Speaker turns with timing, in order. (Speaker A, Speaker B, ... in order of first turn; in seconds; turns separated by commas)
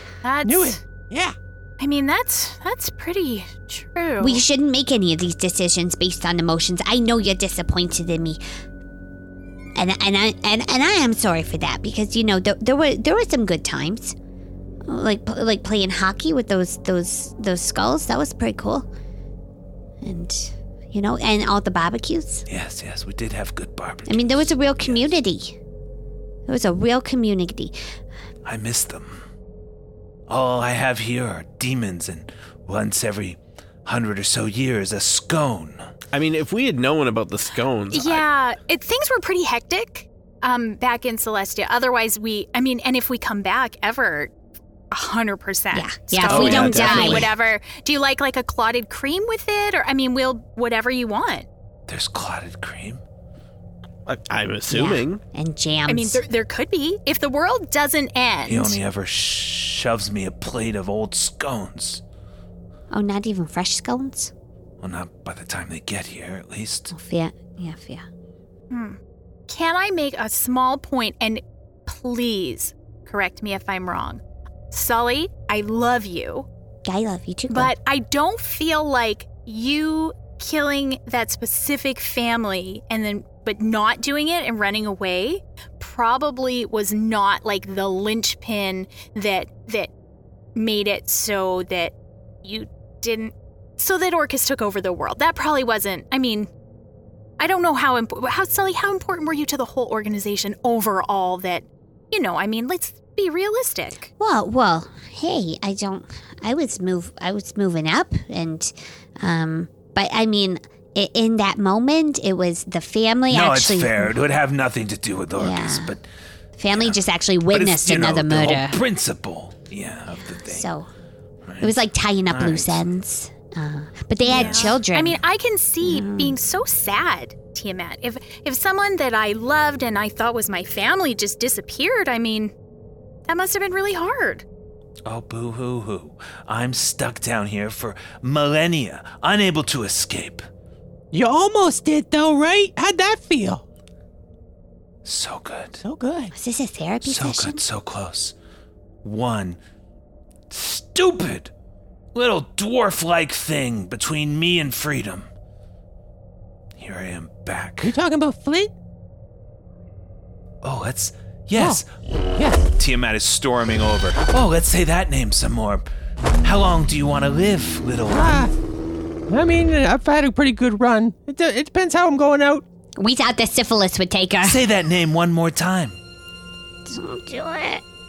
Speaker A: 0.2-0.8, Speaker B: 0.5-1.4, Speaker A: 1.8-4.4, Speaker C: 4.2-8.4, Speaker C: 9.8-14.2, Speaker C: 14.9-18.9, Speaker C: 20.0-22.4, Speaker D: 22.5-25.1, Speaker C: 24.1-25.6, Speaker C: 26.5-27.7, Speaker D: 28.4-29.2, Speaker D: 30.3-35.9, Speaker E: 36.1-38.2, Speaker A: 37.9-44.3, Speaker A: 44.9-51.5, Speaker C: 45.7-47.3, Speaker E: 46.3-47.3, Speaker D: 51.9-53.0, Speaker E: 54.1-55.2, Speaker C: 54.7-56.2, Speaker A: 55.9-58.8, Speaker D: 58.5-62.0, Speaker C: 62.9-64.3, Speaker D: 64.8-66.9, Speaker C: 66.9-68.0, Speaker A: 68.7-76.5, Speaker C: 76.8-77.7, Speaker A: 77.5-89.9, Speaker A: 90.5-96.5, Speaker A: 97.4-104.1, Speaker C: 104.2-114.1, Speaker D: 113.3-116.0, Speaker C: 115.4-115.9, Speaker C: 116.6-118.8, Speaker D: 116.7-120.7, Speaker C: 120.2-120.9, Speaker D: 121.5-121.7, Speaker C: 121.6-125.2, Speaker D: 122.3-122.9, Speaker A: 124.2-132.5, Speaker D: 124.3-124.8, Speaker C: 125.8-126.4, Speaker A: 133.3-134.4, Speaker D: 135.1-140.4, Speaker B: 141.1-143.6, Speaker D: 145.1-145.8, Speaker B: 145.8-146.3, Speaker C: 146.3-147.6, Speaker D: 147.0-148.3, Speaker D: 149.0-149.6, Speaker D: 150.5-151.5, Speaker D: 152.2-155.3, Speaker D: 156.8-157.9, Speaker B: 157.8-158.7, Speaker D: 160.6-161.9, Speaker B: 161.6-161.8, Speaker B: 162.3-162.7, Speaker D: 162.8-165.9, Speaker D: 166.4-168.4, Speaker B: 168.1-168.5, Speaker B: 169.3-172.6, Speaker C: 173.0-174.6, Speaker D: 174.4-176.0, Speaker C: 176.9-177.8